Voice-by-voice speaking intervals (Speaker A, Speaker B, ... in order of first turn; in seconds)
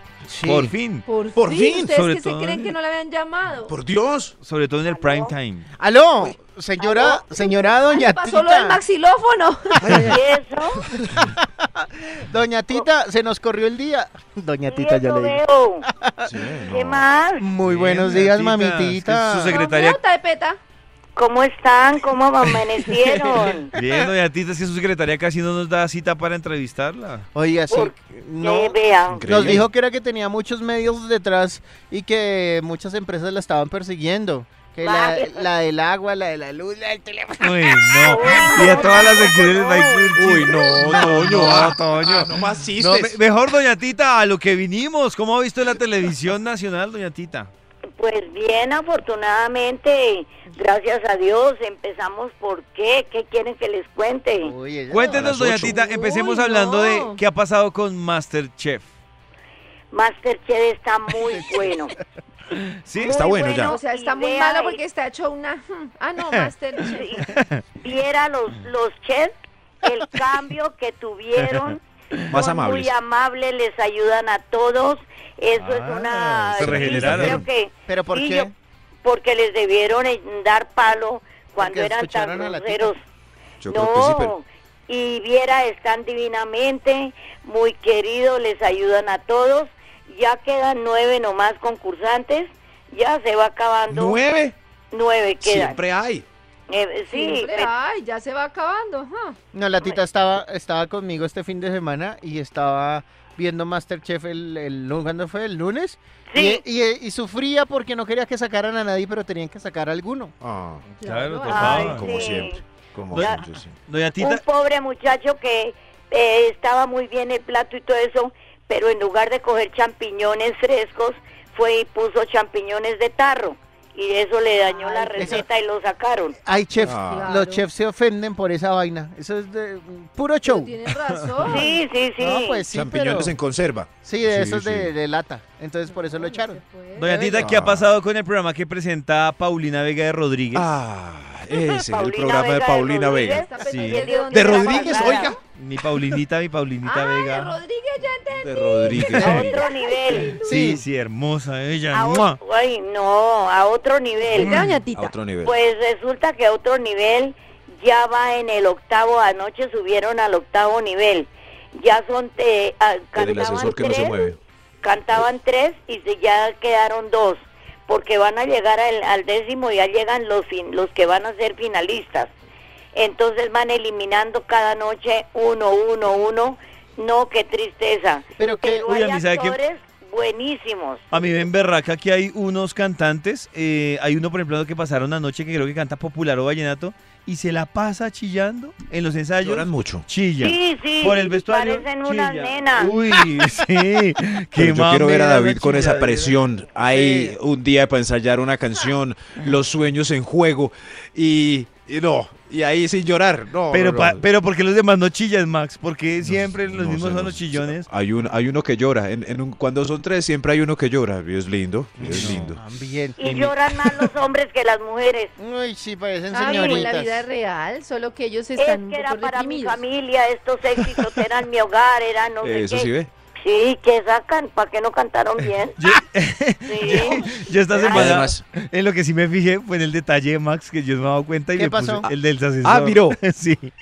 Speaker A: 0.3-0.7, 5.8-8.8, 9.8-10.2, 10.8-16.7, 17.4-19.6, 23.8-24.1, 27.3-39.0, 54.4-55.3, 61.2-62.0, 77.9-78.5, 81.6-82.9, 99.5-110.3, 125.1-125.4, 126.4-130.7, 132.2-133.3, 134.0-136.6, 137.1-137.5, 150.3-150.8, 178.4-178.8, 196.9-197.3, 212.0-213.3, 215.4-217.2, 231.5-232.1
Speaker B: 0.4-1.0, 1.9-2.7, 4.4-5.7, 17.6-20.0, 23.7-27.2, 37.4-47.5, 54.9-58.9, 62.8-63.1, 67.1-67.6, 71.4-72.3, 75.5-77.4, 111.0-112.3, 113.2-114.4, 130.9-131.7, 136.9-140.7, 143.6-144.0, 145.5-147.6, 149.2-149.4, 150.4-152.4, 154.4-154.7, 178.8-179.6, 181.1-196.3, 203.7-207.9, 212.1-212.6, 225.8-233.7
Speaker C: 1.1-3.7, 6.8-9.9, 19.4-20.6, 38.2-38.8, 55.5-57.2, 63.6-67.2, 97.1-99.4, 111.0-112.3, 124.7-125.4, 126.8-127.6, 130.4-131.8, 135.9-137.4, 143.2-145.4, 146.8-150.6, 154.3-155.1, 216.3-219.8
Speaker D: 1.3-1.9, 3.6-4.3, 16.2-17.1, 29.1-29.6, 40.1-43.2, 55.0-55.8, 63.0-63.8, 72.3-72.9, 76.6-77.5, 83.6-84.3, 93.9-94.5, 95.4-96.2, 110.4-110.8, 111.5-113.7, 126.8-127.3, 132.7-134.9, 137.4-137.9, 140.5-143.4, 144.2-145.4, 148.4-149.6, 154.9-155.6, 163.2-164.4, 189.4-190.1, 194.6-204.2, 206.2-212.6, 222.4-223.1, 227.8-228.4, 232.0-233.2
Speaker E: 4.9-5.3, 9.9-10.8, 14.7-15.8, 16.7-17.4, 21.1-23.7, 27.7-29.3, 34.8-35.5, 38.1-40.1, 48.0-54.5, 59.9-61.9, 63.0-64.8, 66.9-67.2, 67.8-71.8, 72.3-78.5, 79.0-83.0, 83.7-94.2, 94.9-95.8, 96.7-97.7, 106.3-106.6, 111.5-112.6, 113.1-113.4, 114.2-126.4, 131.4-132.6, 141.5-145.3, 149.2-150.3, 151.9-154.6, 155.4-172.3, 172.9-181.1, 190.4-192.9, 213.2-215.3, 218.6-225.8, 226.7-228.3